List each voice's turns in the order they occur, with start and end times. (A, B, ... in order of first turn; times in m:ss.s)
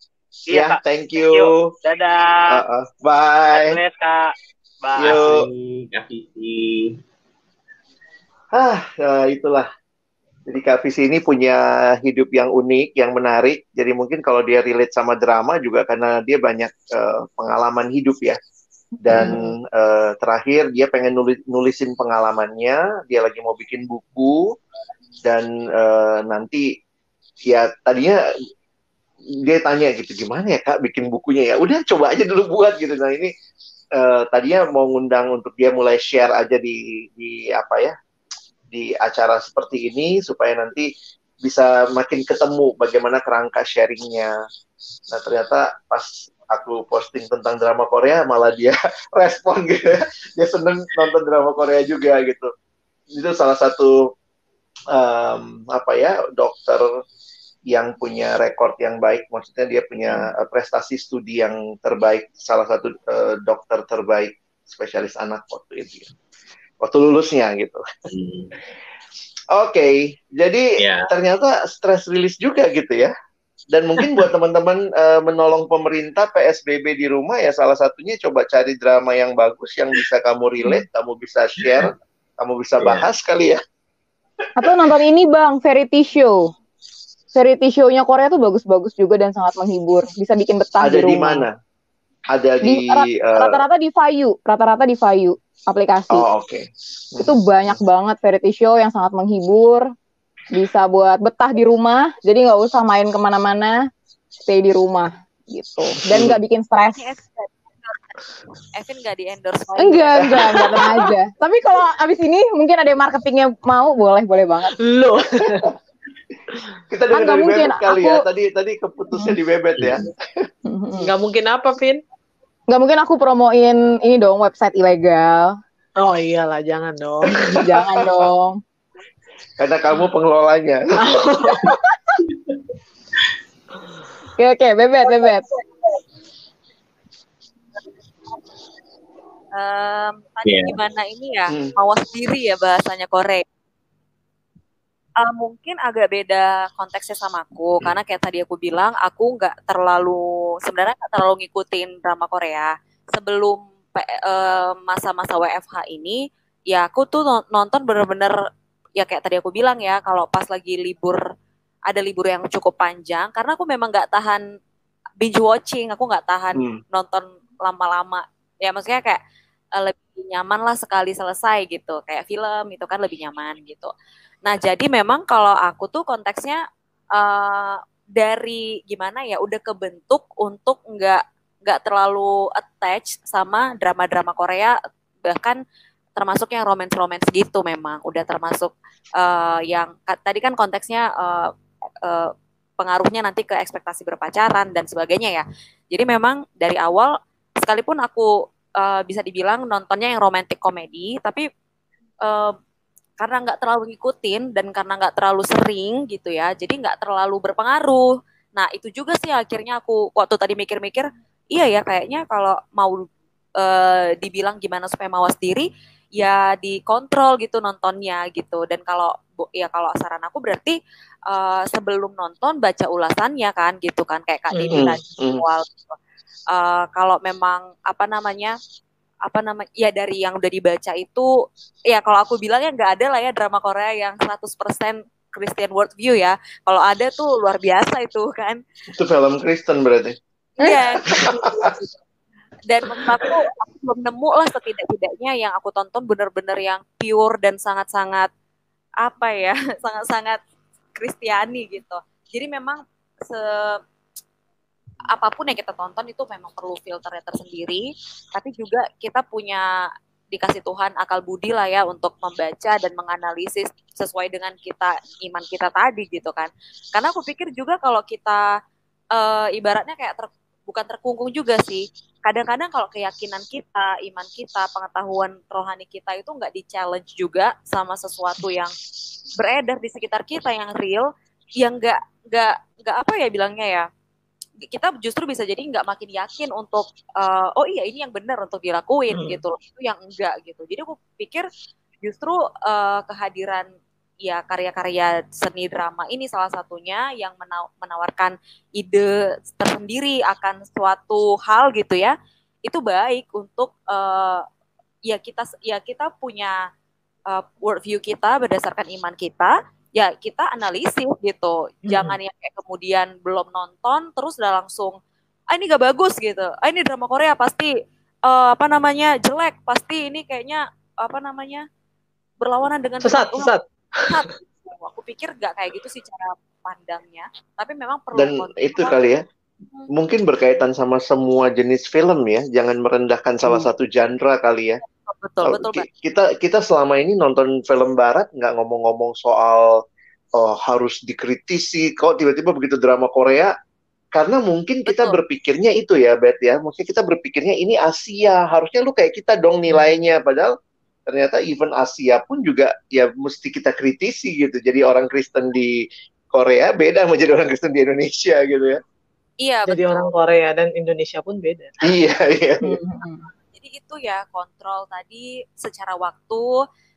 0:00.5-0:02.6 A
0:00.5-0:01.7 B
0:02.5-0:03.8 B
0:03.5-0:05.3 A
0:05.0-0:05.4 B
0:05.0-0:07.0 C
0:08.5-0:09.7 B
0:10.5-0:18.4 B
0:19.0-0:19.5 D
0:19.0-0:24.6 B
0:25.2-0:26.6 B
0:27.5-0:28.2 B
0:29.4-0:33.3 B
0:34.0-0:37.9 B
0:38.7-0:40.9 B
0:41.4-0:44.3 B
0:45.1-0:52.5 B
0:53.1-0:54.1 B
0:54.9-0:56.9 B
0:57.7-1:06.1 B
1:06.8-1:07.8 B
1:08.1-1:08.5 C
1:09.5-1:13.1 B
1:10.8-1:11.1 C
1:13.7-1:23.6 B
1:22.8-1:23.1 C
1:24.6-1:26.5 D
1:27.3-1:31.4 D
1:30.8-1:31.5 B
1:32.3-1:33.6 B
1:32.6-1:36.2 D
1:36.1-1:37.8 B
1:37.2-1:39.9 D
1:40.5-1:43.9 D
1:44.4-1:47.2 D
1:46.1-1:46.4 B
1:46.9-1:48.1 E
1:48.7-1:50.8 E
1:49.8-1:54.7 D
1:54.8-1:55.7 F
1:55.4-1:55.7 B
1:56.9-2:00.5 B
1:57.1-1:58.2 D
1:59.8-2:00.0 C
2:00.6-2:01.1 D
2:01.0-2:02.0 F
2:02.7-2:05.6 D
2:06.0-2:07.6 F
2:07.5-2:07.9 B
2:07.6-2:08.6 D
2:09.6-2:11.7 B
2:11.0-2:11.7 F
2:11.7-2:12.2 D
2:14.4-2:15.5 D
2:19.5-2:23.4 E
2:20.4-2:20.8 C
2:21.5-2:21.7 B
2:25.2-2:38.3 E
2:39.0-2:41.2 E
2:41.9-2:44.4 E
2:45.2-2:49.2 E
2:46.5-2:46.8 B
2:49.8-2:53.9 E
2:54.4-2:56.6 E
2:57.1-3:05.6 E
3:06.2-3:11.5 E
3:12.0-3:21.4 E
3:22.2-3:22.5 E
3:23.2-3:33.1 E
3:33.6-3:35.7 E
3:36.2-3:40.8 E
3:41.3-3:46.0 E
3:44.5-3:44.9 F
3:44.7-3:45.4 B
3:46.5-3:48.6 E
3:49.3-3:51.3 E
3:51.9-3:58.6 E
3:58.9-4:00.2 B
4:00.6-4:01.9 E
4:01.0-4:01.7 B
4:02.7-4:08.3 E
4:09.0-4:10.4 E
4:11.0-4:13.8 E
4:15.1-4:19.6 E
4:20.3-4:28.4 E
4:29.1-4:38.7 E
4:39.4-4:41.1 E
4:41.6-4:43.9 E
4:44.6-4:51.4 E
4:49.1-4:49.4 F
4:52.0-4:53.6 E
4:54.2-5:02.1 E
5:02.7-5:04.4 E
5:05.1-5:06.5 E
5:07.3-5:15.0 E
5:11.8-5:12.2 F
5:15.5-5:17.7 E
5:18.3-5:21.6 E
5:22.4-5:23.5 E
5:23.0-5:24.3 F
5:24.0-5:29.1 E
5:28.1-5:29.2 B
5:29.9-5:34.8 B
5:35.0-5:35.9 E
5:35.4-5:39.7 B
5:40.4-5:43.5 B
5:44.1-5:50.5 B
5:44.9-5:45.2 E
5:49.7-5:49.9 F
5:51.1-5:58.8 B
5:59.4-6:00.1 E
5:59.7-6:01.7 F
6:01.8-6:02.7 B
6:02.6-6:03.3 D
6:03.5-6:06.5 E